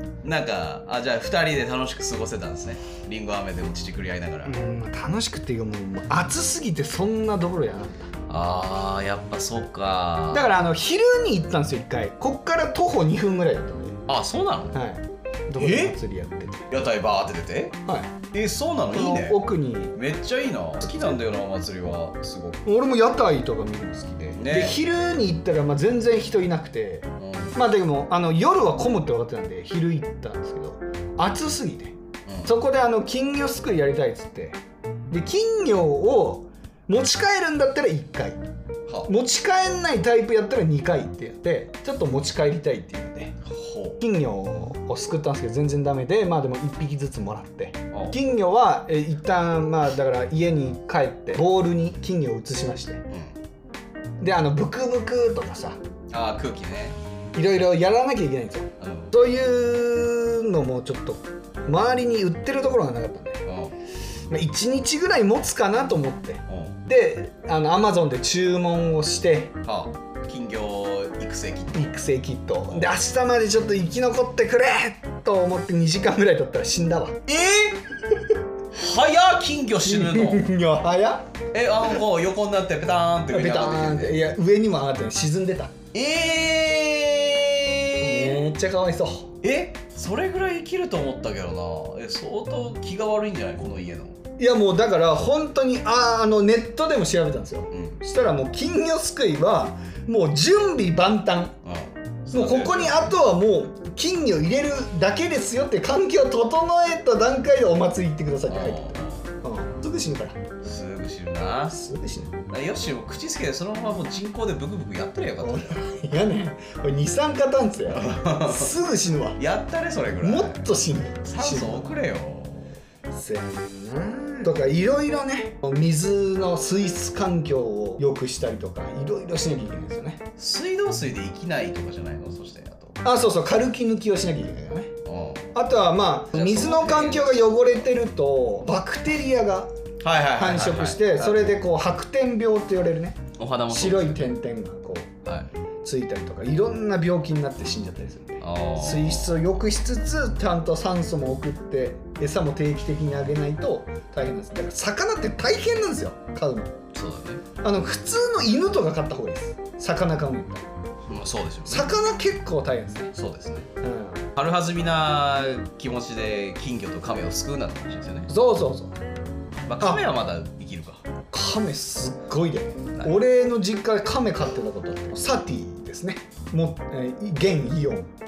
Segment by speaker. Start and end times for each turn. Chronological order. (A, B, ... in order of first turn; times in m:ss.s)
0:00.2-0:04.6 A
0:04.4-0:08.1 B
0:08.3-0:10.5 A
0:10.3-0:14.0 B
0:14.1-0:14.8 A
0:14.7-0:16.7 B
0:15.6-0:16.0 A
0:16.7-0:17.8 A
0:17.9-0:18.1 B
0:18.3-0:19.4 A
0:18.9-0:20.0 B
0:20.0-0:22.6 A
0:22.6-0:34.6 B
0:24.4-0:24.8 A
0:27.2-0:27.6 A
0:32.3-0:32.5 A
0:35.1-0:38.4 B
0:39.0-0:43.4 B
0:43.4-0:44.0 A
0:44.0-0:53.0 B
0:47.9-0:48.2 A
0:53.1-0:53.4 A
0:54.2-0:55.8 B
0:56.1-0:57.0 A
0:57.4-1:03.4 B
0:58.8-0:59.1 A
1:03.4-1:03.8 A
1:04.3-1:09.6 B
1:06.5-1:06.8 A
1:09.6-1:11.9 A
1:11.7-1:17.8 B
1:18.7-1:20.5 A
1:19.8-1:21.3 B
1:21.5-1:24.3 A
1:23.3-1:25.8 B
1:25.9-1:28.5 A
1:28.0-1:29.3 B
1:29.4-1:34.2 A
1:34.4-1:41.6 B
1:37.7-1:38.0 A
1:41.6-1:43.1 A
1:42.3-1:50.4 B
1:48.5-1:49.3 A
1:50.6-1:51.8 A
1:51.7-1:52.4 B
1:52.5-1:55.8 A
1:55.4-1:59.4 B
1:57.9-1:58.7 A
1:59.4-2:00.7 A
2:00.2-2:02.0 B
2:01.2-2:02.8 A
2:03.1-2:10.2 B
2:10.4-2:13.0 A
2:13.0-2:14.9 B
2:15.0-2:15.5 A
2:15.5-2:19.7 B
2:16.3-2:17.6 A
2:20.0-2:21.6 A
2:20.4-2:25.1 B
2:23.4-2:24.3 A
2:25.2-2:25.5 A
2:25.8-2:36.8 B
2:28.4-2:29.4 A
2:36.9-2:37.4 A
2:37.6-2:40.7 B
2:41.1-2:41.9 A
2:41.7-2:43.1 B
2:43.2-2:43.7 A
2:43.8-2:44.3 B
2:44.4-2:48.3 A
2:48.3-2:49.0 B
2:49.7-2:51.0 A
2:51.3-2:58.1 B